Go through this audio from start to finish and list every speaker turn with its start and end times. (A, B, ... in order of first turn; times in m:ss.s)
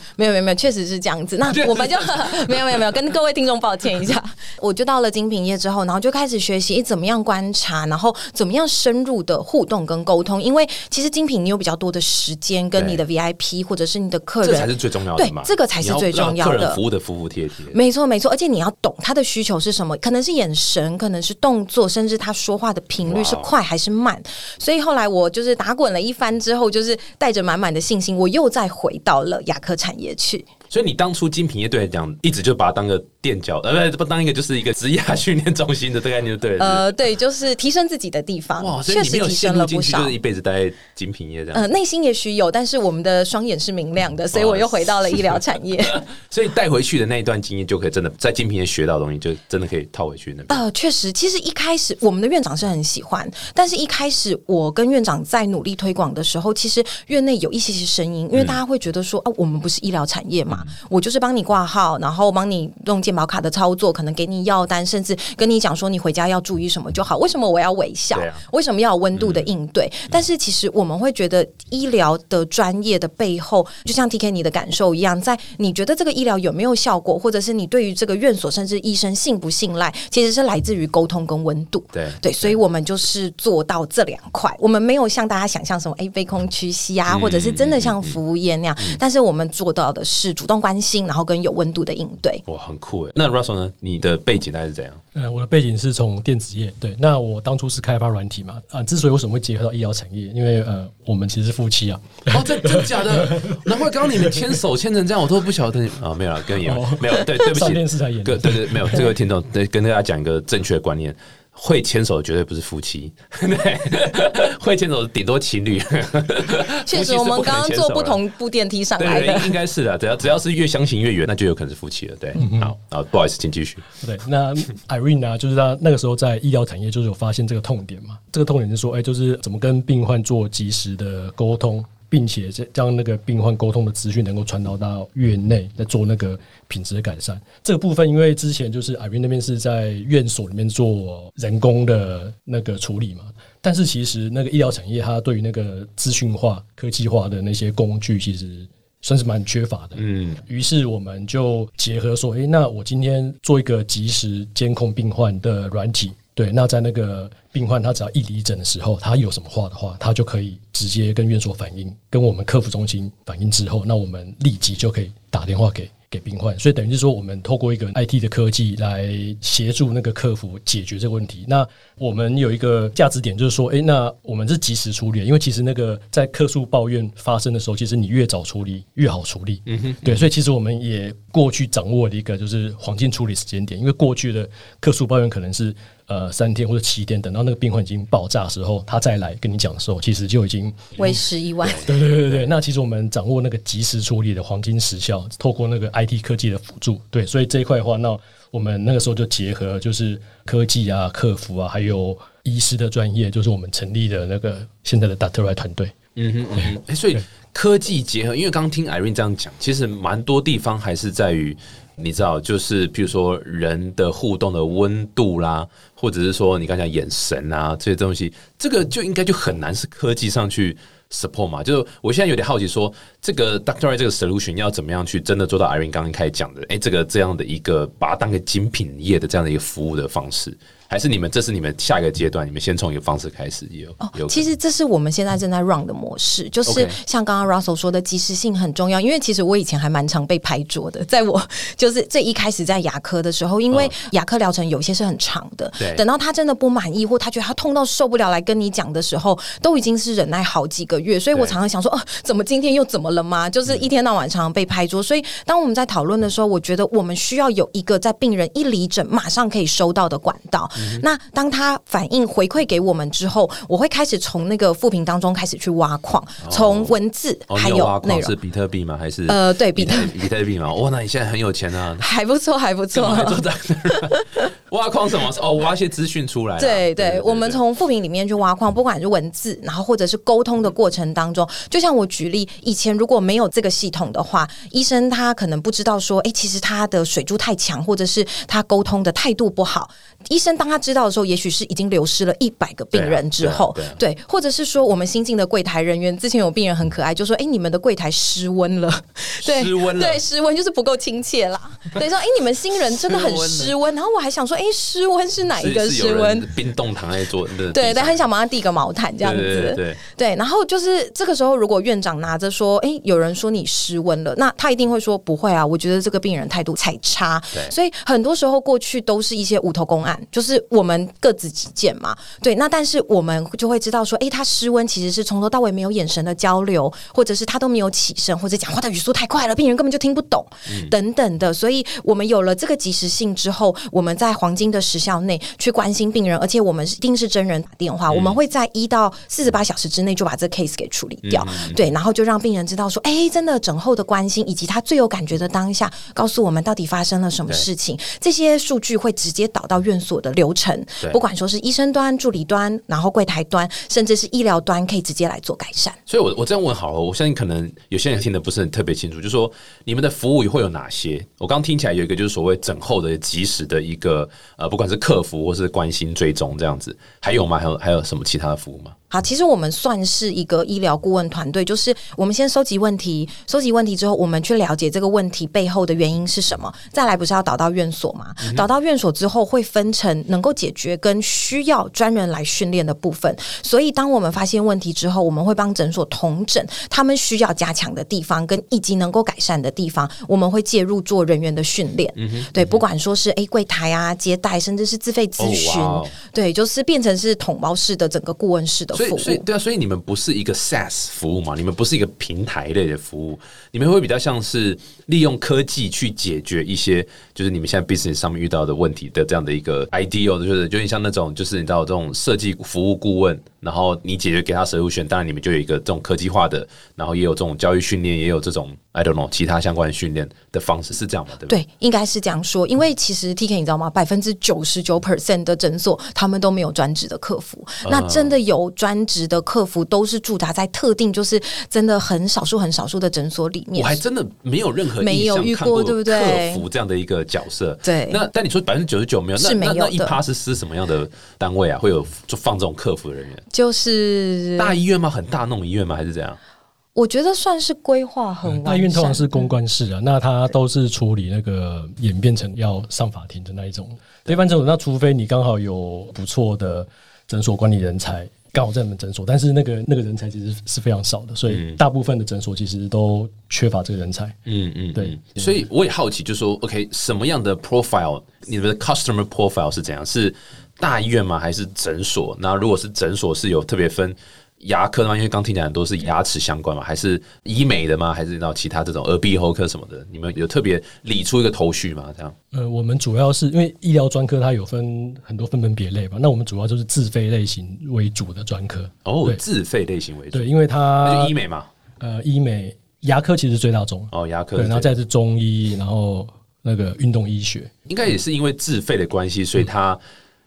0:00.2-0:16.8 A
0:01.4-0:02.8 B
0:12.8-0:13.0 B
0:14.4-0:17.8 B
0:17.7-0:30.5 A
0:23.0-0:23.5 B
0:30.7-0:36.9 B
0:36.6-0:40.2 A
0:38.6-0:41.7 B
0:41.5-0:46.0 A
0:44.3-0:50.6 B
0:50.5-1:32.4 A
1:08.1-1:08.4 B
1:09.2-1:09.5 B
1:21.9-1:22.6 B
1:27.1-1:28.2 B
1:32.5-1:35.0 B
1:35.1-1:43.7 C
1:42.3-1:58.2 B
1:46.6-1:49.1 C
1:56.8-1:59.6 A
1:59.0-2:03.9 B
2:02.4-2:02.7 C
2:04.0-3:11.2 C
2:30.0-2:30.4 B
2:59.7-3:00.2 B
3:11.0-3:11.8 A
3:11.7-3:12.4 B
3:11.8-3:25.9 C
3:26.2-3:54.5 B
3:54.0-4:28.3 A
3:56.7-3:57.0 B
4:20.8-4:21.0 B
4:26.4-4:26.9 B
4:27.5-4:32.0 B
4:29.3-4:30.2 A
4:32.0-4:34.4 A
4:33.0-4:37.6 B
4:36.6-5:06.5 A
4:52.9-4:54.0 B
4:59.4-5:00.2 B
5:03.0-5:03.7 B
5:05.6-5:08.2 B
5:07.7-5:56.0 A
5:09.2-5:10.0 B
5:38.1-5:38.4 B
5:41.2-5:41.9 B
5:56.1-6:09.0 B
6:09.1-6:39.4 A
6:32.2-6:32.8 B
6:35.4-6:36.2 B
6:38.9-7:01.6 B
7:01.5-7:14.0 A
7:07.8-7:08.4 B
7:13.8-7:23.4 B
7:15.0-7:16.6 A
7:17.8-7:18.2 A
7:19.4-7:20.2 A
7:23.5-7:24.8 A
7:24.6-7:26.4 B
7:27.0-7:29.4 A
7:28.6-7:44.4 C
7:41.5-7:41.8 B
7:44.5-8:02.4 B
7:45.0-7:45.6 C
8:02.5-8:09.4 C
8:09.0-8:11.7 B
8:10.3-8:11.4 C
8:12.0-8:17.7 C
8:14.1-8:14.9 B
8:17.9-8:20.0 B